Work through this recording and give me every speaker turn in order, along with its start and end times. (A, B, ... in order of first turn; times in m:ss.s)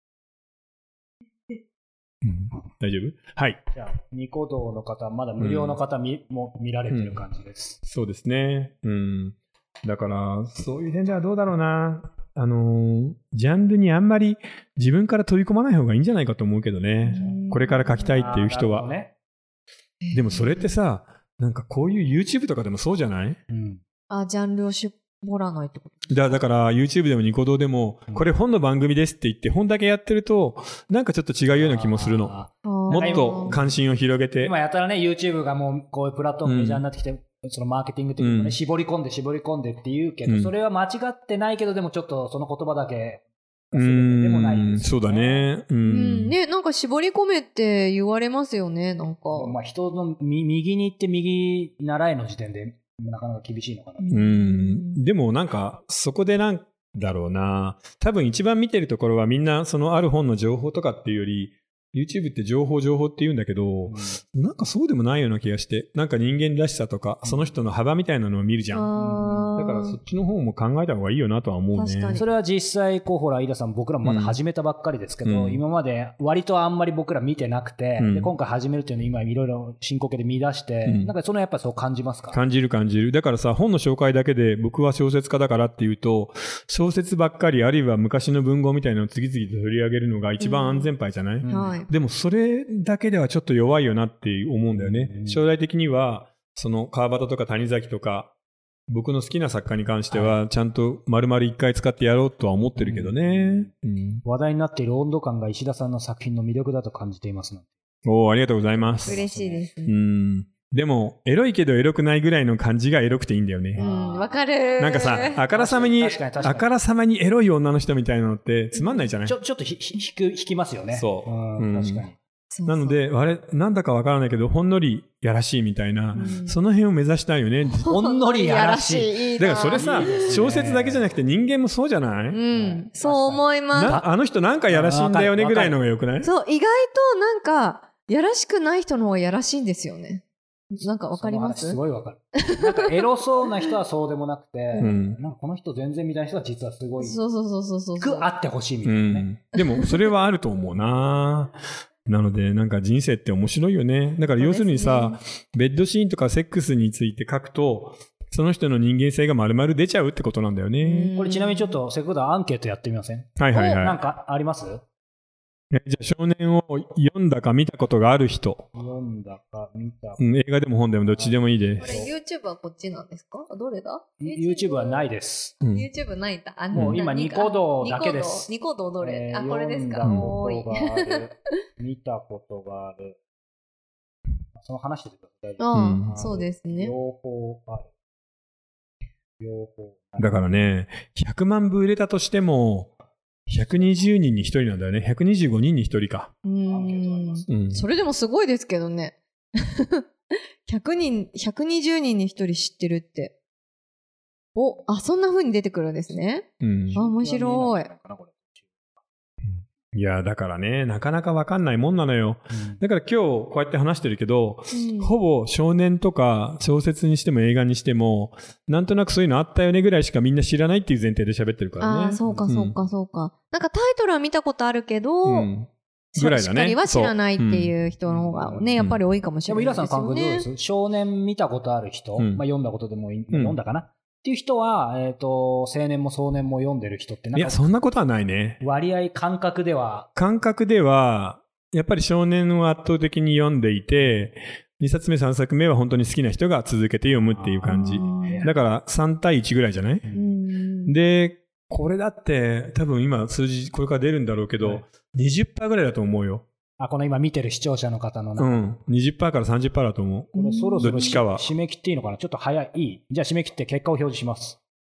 0:02.2-0:03.6 A
0:03.7-0:07.8 B
0:05.4-0:05.8 A
0:06.9-0:07.2 A
0:07.8-0:18.9 A
0:17.0-0:18.4 C
0:18.1-0:19.1 B
0:20.0-0:20.7 C
0:20.1-0:23.4 A
0:23.5-0:23.8 B
0:24.1-0:26.4 C
0:26.1-0:32.4 A
0:31.5-0:33.8 B
0:32.6-0:33.6 C
0:32.9-0:34.6 A
0:34.4-0:45.5 B
0:36.4-0:36.8 A
0:38.2-0:38.6 A
0:40.2-0:40.5 A
0:43.7-0:46.4 A
0:45.8-0:49.6 C
0:49.3-0:54.1 B
0:54.0-0:55.0 C
0:54.1-1:08.9 A
1:03.9-1:04.2 B
1:07.2-1:07.5 B
1:08.7-1:10.0 C
1:09.0-1:09.6 B
1:09.6-1:12.2 A
1:11.7-1:12.3 C
1:12.1-1:22.4 B
1:14.0-1:14.4 A
1:15.2-1:15.6 A
1:18.0-1:18.3 A
1:20.8-1:21.1 A
1:22.3-1:38.3 A
1:30.4-1:30.9 C
1:31.4-1:31.8 B
1:31.5-1:31.9 C
1:34.8-1:35.4 B
1:38.9-1:44.2 A
1:40.1-1:40.4 B
1:42.8-1:43.7 B
1:44.2-1:47.7 B
1:48.0-1:49.2 A
1:48.9-1:49.7 B
1:49.0-1:50.0 C
1:49.9-1:53.8 A
1:53.8-1:54.4 B
1:53.8-1:55.4 C
1:54.8-1:59.4 A
1:55.5-1:56.7 B
1:58.8-1:59.1 C
1:59.2-2:02.2 B
2:00.9-2:02.0 A
2:02.5-2:03.0 C
2:02.7-2:07.9 A
2:06.2-2:06.6 C
2:06.2-2:06.4 B
2:07.9-2:10.4 C
2:07.9-2:11.1 B
2:09.4-2:12.4 A
2:12.3-2:14.0 C
2:12.5-2:14.1 B
2:13.7-2:16.3 A
2:14.7-2:15.8 B
2:16.2-2:21.8 C
2:21.2-2:27.2 B
2:22.4-2:22.9 C
2:24.8-2:25.2 A
2:27.0-2:28.3 C
2:28.0-2:29.3 B
2:28.8-2:41.1 A
2:29.6-2:30.1 C
2:34.4-2:35.2 C
2:40.8-2:41.8 C
2:41.2-2:44.8 B
2:43.4-2:44.0 A
2:45.7-2:48.7 A
2:48.7-2:50.2 B
2:50.2-2:52.0 A
2:51.0-2:52.1 B
2:51.8-2:55.0 C
2:54.2-2:55.6 B
2:55.6-2:55.9 A
2:55.7-3:01.3 C
2:56.7-2:57.0 A
2:56.7-2:58.5 B
2:59.0-3:03.2 B
3:00.0-3:00.4 A
3:04.6-3:07.9 B
3:05.6-3:06.9 C
3:05.7-3:06.1 A
3:09.4-3:10.7 B
3:10.2-3:12.9 A
3:13.5-3:16.3 A
3:16.4-3:20.0 C
3:16.7-3:17.5 B
3:17.5-3:17.8 A
3:20.7-3:23.4 C
3:24.6-3:27.9 C
3:26.6-3:27.0 A
3:26.9-3:28.8 B
3:29.5-3:42.7 A
3:32.5-3:32.8 B
3:34.7-3:35.1 C
3:41.8-3:45.5 C
3:45.2-3:47.7 A
3:46.2-3:50.5 C
3:48.0-3:48.8 B
3:49.5-3:57.7 B
3:52.2-3:52.4 A
3:53.3-3:53.6 A
3:57.4-3:58.6 A
3:58.6-4:00.1 B
4:00.2-4:10.1 A
4:07.3-4:08.5 B
4:07.7-4:08.5 C
4:10.0-4:10.4 B
4:10.1-4:10.9 C
4:10.9-4:16.5 A
4:16.8-4:18.6 B
4:18.4-4:21.5 A
4:20.4-4:21.2 C
4:20.4-4:24.6 B